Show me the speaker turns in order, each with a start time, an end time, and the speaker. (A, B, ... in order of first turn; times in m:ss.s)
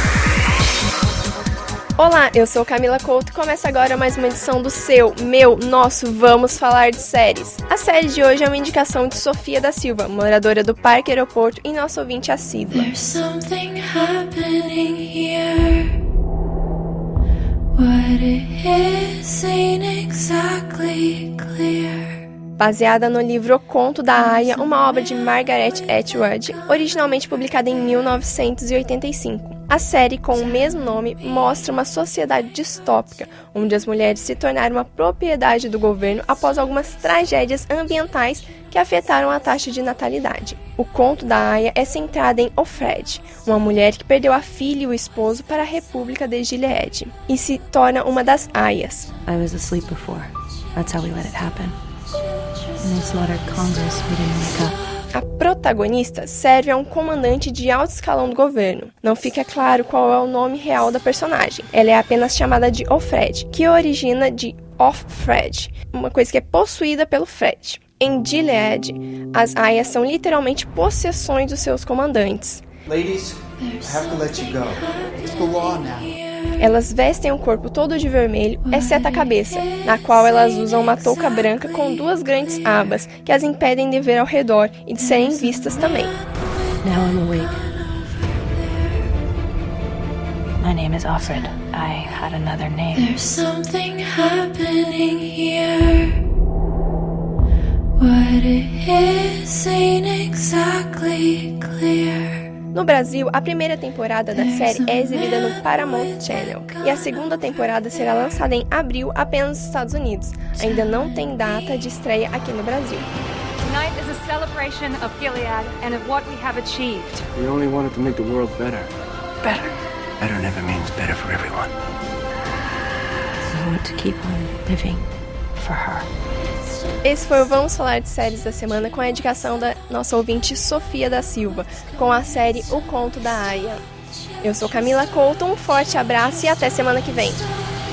0:02.0-0:12.9 A
0:12.7-0:16.0 B
0:17.7-0:22.2 B
0:22.6-0:49.1 A
0:49.3-0:51.8 C
0:52.8-0:54.8 C
0:55.1-1:12.6 A
1:12.9-1:16.2 D
1:13.6-1:16.6 B
1:16.6-1:26.2 A
1:18.7-1:21.6 B
1:26.8-1:27.7 C
1:27.6-1:28.4 B
1:30.6-1:33.1 C
1:32.9-1:36.2 B
1:38.0-1:42.5 B
1:42.7-1:53.1 A
1:44.3-1:47.1 B
1:53.6-1:57.2 E
1:57.4-1:58.9 F
2:00.2-2:01.7 F
2:03.5-2:06.1 C
2:07.0-2:13.8 A
2:14.4-2:17.5 A